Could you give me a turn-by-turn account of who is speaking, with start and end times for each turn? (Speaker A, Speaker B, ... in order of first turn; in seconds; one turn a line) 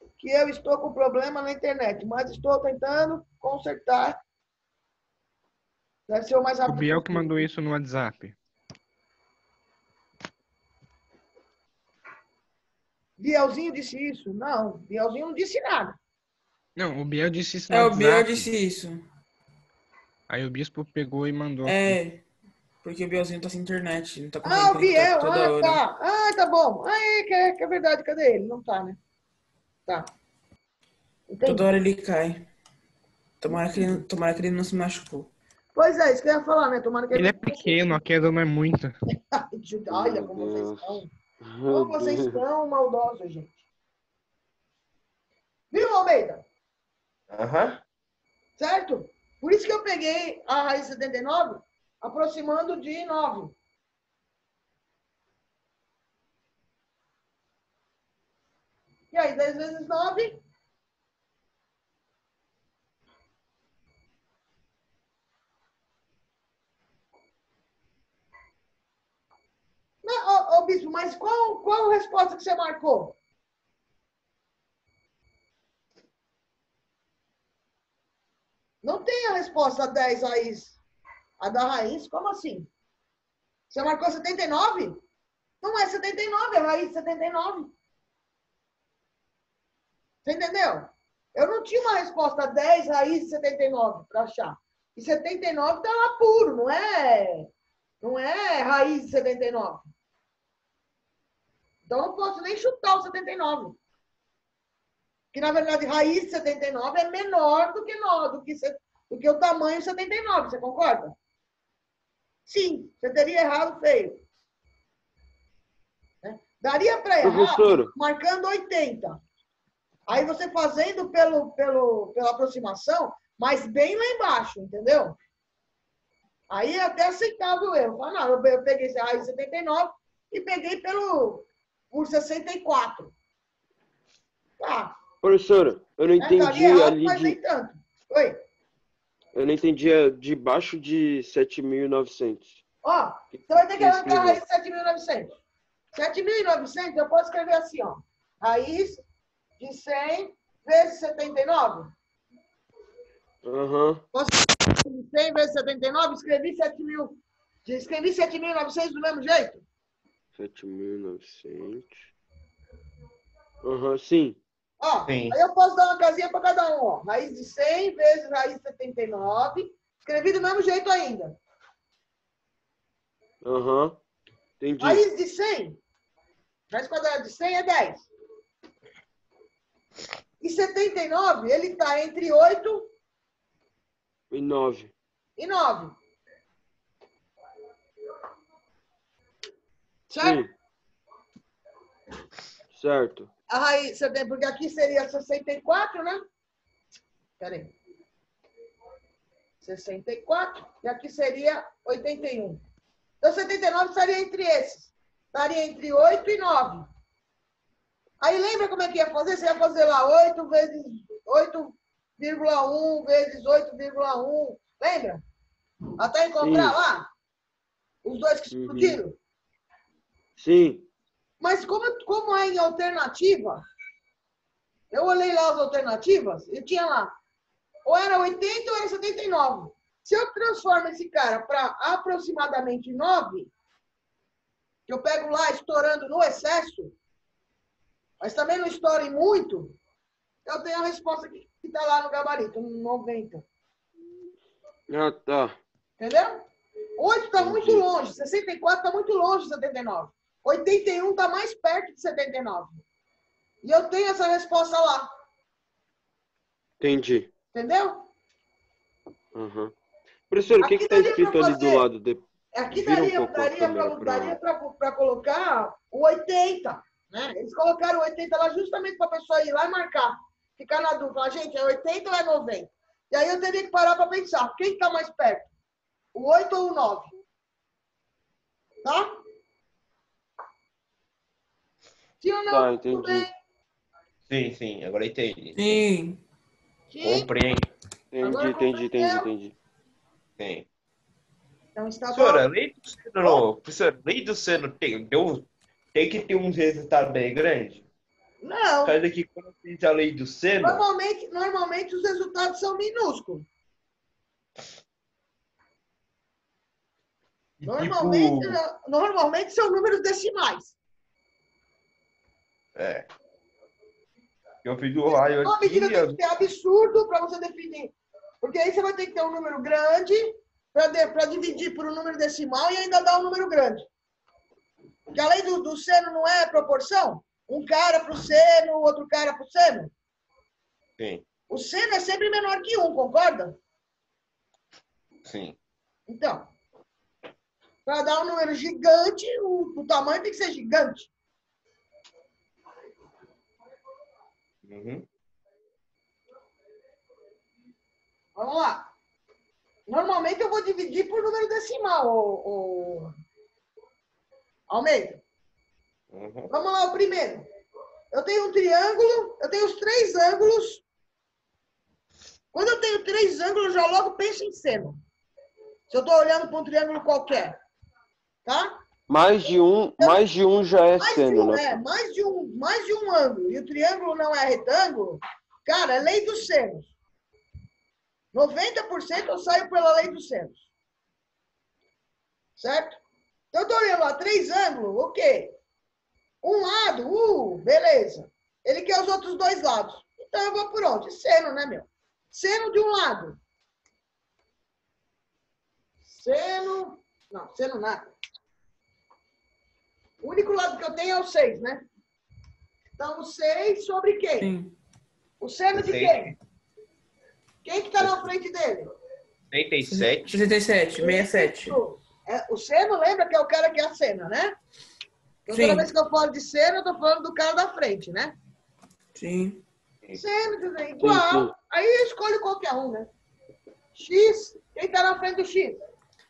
Speaker A: 0.2-4.2
Speaker A: 6.1-7.5
Speaker B: 6.7-8.4
Speaker A: 13.2-16.0
Speaker B: 16.8-18.5
Speaker C: 17.7-19.0
Speaker B: 20.3-22.0
Speaker C: 21.6-22.2
Speaker C: 22.8-25.8
Speaker A: 24.4-29.0
Speaker A: 31.3-31.7
Speaker C: 31.4-32.5
Speaker C: 33.4-35.3
Speaker A: 35.8-38.0
Speaker B: 37.1-39.0
Speaker A: 39.3-41.1
Speaker D: 39.9-42.4
Speaker A: 41.7-43.6
Speaker A: 45.7-46.4
Speaker E: 47.3-47.8
Speaker A: 48.6-53.5
Speaker A: 59.1-60.4
Speaker A: 70.0-73.2
Speaker A: 78.8-80.8
Speaker A: 81.4-82.7
Speaker A: 83.7-85.0
Speaker A: 85.6-87.7
Speaker A: 90.2-97.5
Speaker A: 98.0-99.9
Speaker A: 101.9-103.8
Speaker A: 105.3-111.2
Speaker A: 112.5-114.2
Speaker A: 116.2-119.2
Speaker D: 117.2-117.9
Speaker A: 120.1-125.2
Speaker A: 126.5-133.1
Speaker A: 134.6-135.0
Speaker D: 135.2-137.4
Speaker A: 136.2-138.4
Speaker D: 139.3-142.6
Speaker A: 142.8-145.3
Speaker D: 143.3-144.4
Speaker A: 145.9-149.0
Speaker A: 149.6-151.9
Speaker D: 153.4-154.0
Speaker A: 154.1-159.6
Speaker D: 160.4-162.1
Speaker D: 163.6-164.4
Speaker A: 164.8-171.4
Speaker E: 165.1-165.4
Speaker D: 173.4-174.0
Speaker D: 174.6-175.0
Speaker A: 174.8-175.8
Speaker A: 176.7-178.1
Speaker A: 180.4-182.9
Speaker D: 184.3-184.9
Speaker A: 185.4-185.9
Speaker A: 190.1-190.4
Speaker D: 190.2-190.5
Speaker D: 192.7-193.3
Speaker A: 193.5-196.2
Speaker A: 197.4-197.7
Speaker A: 199.6-202.6
Speaker A: 203.2-206.9
Speaker A: 208.2-215.2
Speaker A: 216.0-217.1
Speaker D: 216.4-216.8
Speaker A: 218.0-219.2
Speaker D: 218.5-219.0
Speaker D: 220.4-220.9
Speaker A: 221.4-223.6
Speaker A: 224.9-227.2
Speaker A: 227.9-233.5
Speaker A: 234.9-236.9
Speaker A: 238.2-239.8
Speaker A: 240.5-243.4
Speaker D: 244.9-245.6
Speaker A: 246.0-252.8
Speaker D: 247.4-247.9
Speaker A: 253.6-255.1
Speaker D: 256.8-257.3
Speaker A: 257.5-258.1
Speaker D: 259.3-259.8
Speaker D: 260.3-264.4
Speaker A: 260.6-261.9
Speaker A: 262.5-275.5
Speaker A: 276.1-277.1
Speaker A: 282.2-283.3
Speaker D: 282.5-283.3
Speaker E: 284.3-285.8
Speaker C: 285.6-286.2
Speaker A: 286.9-287.3
Speaker E: 287.0-287.7
Speaker D: 288.1-289.5
Speaker A: 288.2-289.3
Speaker E: 290.4-290.7
Speaker A: 291.8-292.5
Speaker E: 292.1-297.9
Speaker A: 298.4-299.0
Speaker E: 298.8-300.8
Speaker A: 300.6-303.5
Speaker E: 307.6-308.6
Speaker A: 307.6-310.8
Speaker E: 312.8-313.1
Speaker E: 314.6-316.2
Speaker A: 315.1-323.9
Speaker A: 325.1-329.9
Speaker E: 331.0-331.2
Speaker A: 331.5-333.6
Speaker E: 335.2-335.6
Speaker A: 336.1-336.5
Speaker A: 337.9-341.1
Speaker E: 344.6-345.0
Speaker A: 348.4-348.9
Speaker A: 349.9-353.1
Speaker A: 354.7-355.2
Speaker E: 356.1-356.5
Speaker A: 356.5-357.5
Speaker A: 358.1-360.8
Speaker A: 362.5-365.0
Speaker A: 365.9-367.6
Speaker A: 368.5-368.8
Speaker D: 369.1-371.8
Speaker A: 371.0-376.9
Speaker A: 378.3-380.6
Speaker A: 382.6-383.0
Speaker A: 383.5-385.6
Speaker A: 386.4-393.4
Speaker A: 396.1-398.1
Speaker A: 400.2-401.9
Speaker A: 403.0-404.5
Speaker C: 404.4-404.7
Speaker A: 405.4-406.4
Speaker E: 405.8-406.3
Speaker A: 407.6-408.9
Speaker E: 409.5-410.4
Speaker C: 409.8-411.8
Speaker A: 411.0-414.6
Speaker A: 415.5-418.4
Speaker C: 415.5-415.9
Speaker C: 419.1-419.6
Speaker A: 420.1-423.1
Speaker D: 421.0-421.5
Speaker A: 423.9-425.8